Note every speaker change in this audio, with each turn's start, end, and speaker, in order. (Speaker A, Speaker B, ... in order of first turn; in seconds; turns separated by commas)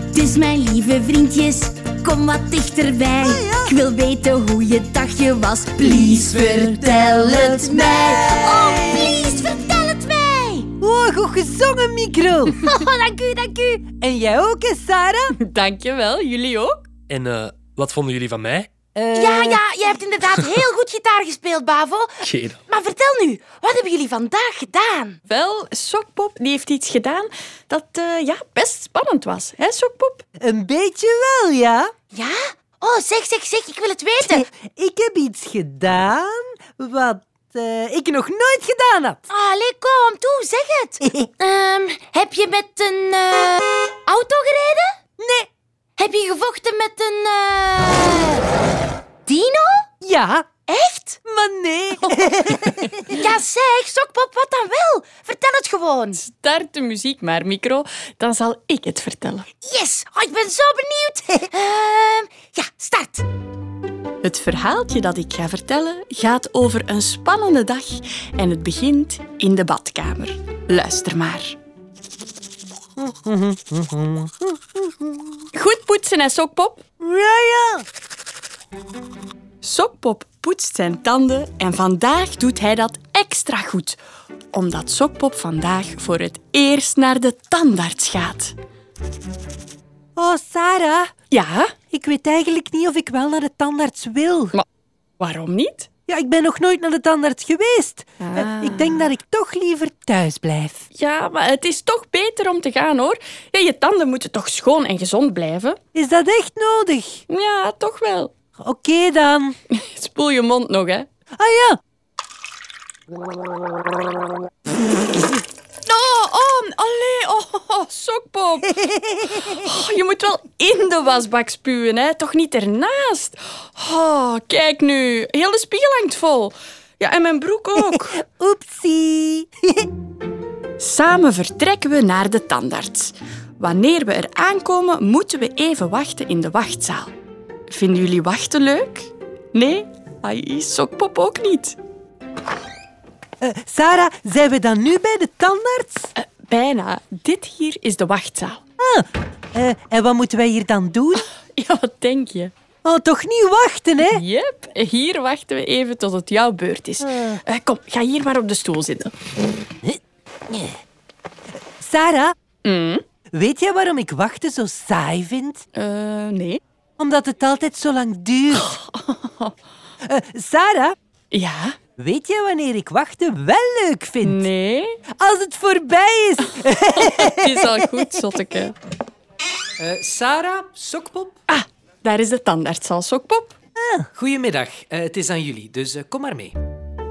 Speaker A: 1.8-2.4, Speaker B: 3.0-3.4, Speaker C: 3.2-3.8, Speaker A: 3.9-4.3, Speaker A: 5.0-7.8, Speaker C: 5.8-9.2, Speaker B: 7.4-10.7, Speaker C: 10.8-12.6, Speaker B: 12.6-13.8, Speaker C: 13.9-15.3, Speaker D: 15.4-16.8, Speaker E: 17.1-18.7, Speaker C: 18.9-19.6, Speaker B: 19.1-25.2, Speaker E: 22.2-22.6, Speaker D: 25.3-30.2, Speaker C: 30.4-31.9, Speaker B: 32.1-34.5, Speaker C: 34.2-39.2, Speaker B: 39.3-45.0, Speaker C: 41.0-41.3, Speaker C: 45.2-45.5, Speaker B: 46.0-48.5, Speaker B: 49.3-49.9, Speaker C: 50.0-50.5, Speaker B: 50.7-51.2, Speaker C: 51.2-53.0, Speaker D: 52.7-52.9, Speaker B: 53.1-56.2, Speaker D: 56.2-59.5, Speaker B: 59.6-63.2, Speaker D: 64.2-71.6, Speaker C: 73.0-75.4, Speaker D: 75.5-76.8, Speaker C: 77.0-77.9, Speaker D: 79.6-84.0, Speaker D: 84.5-88.5, Speaker C: 90.2-91.1, Speaker D: 91.3-91.7, Speaker C: 91.9-94.5, Speaker D: 95.2-95.9, Speaker C: 96.1-100.9, Speaker D: 98.2-99.1, Speaker D: 100.9-105.8, Speaker C: 105.9-107.2, Speaker D: 107.3-108.3, Speaker C: 108.6-109.6, Speaker D: 109.7-111.1, Speaker C: 111.4-111.8, Speaker D: 115.9-118.8, Speaker C: 118.8-119.6, Speaker D: 119.3-128.2, Speaker C: 127.8-129.9, Speaker D: 130.8-137.1, Speaker D: 137.7-141.8, Speaker C: 143.4-146.1, Speaker D: 146.2-148.6, Speaker C: 148.8-151.3, Speaker D: 151.5-152.5, Speaker C: 152.8-154.2, Speaker D: 154.0-159.1, Speaker C: 157.0-157.4, Speaker C: 160.5-160.8, Speaker C: 161.8-162.3, Speaker D: 162.6-163.0, Speaker C: 163.3-165.6, Speaker D: 165.8-166.6, Speaker C: 167.0-168.7, Speaker D: 168.5-169.5, Speaker C: 170.0-171.0, Speaker D: 171.3-171.8, Speaker C: 172.0-174.5, Speaker D: 174.2-175.0, Speaker C: 175.2-177.8, Speaker D: 176.8-178.8, Speaker F: 179.8-181.3, Speaker D: 181.5-183.6, Speaker C: 183.8-184.1, Speaker F: 184.3-186.6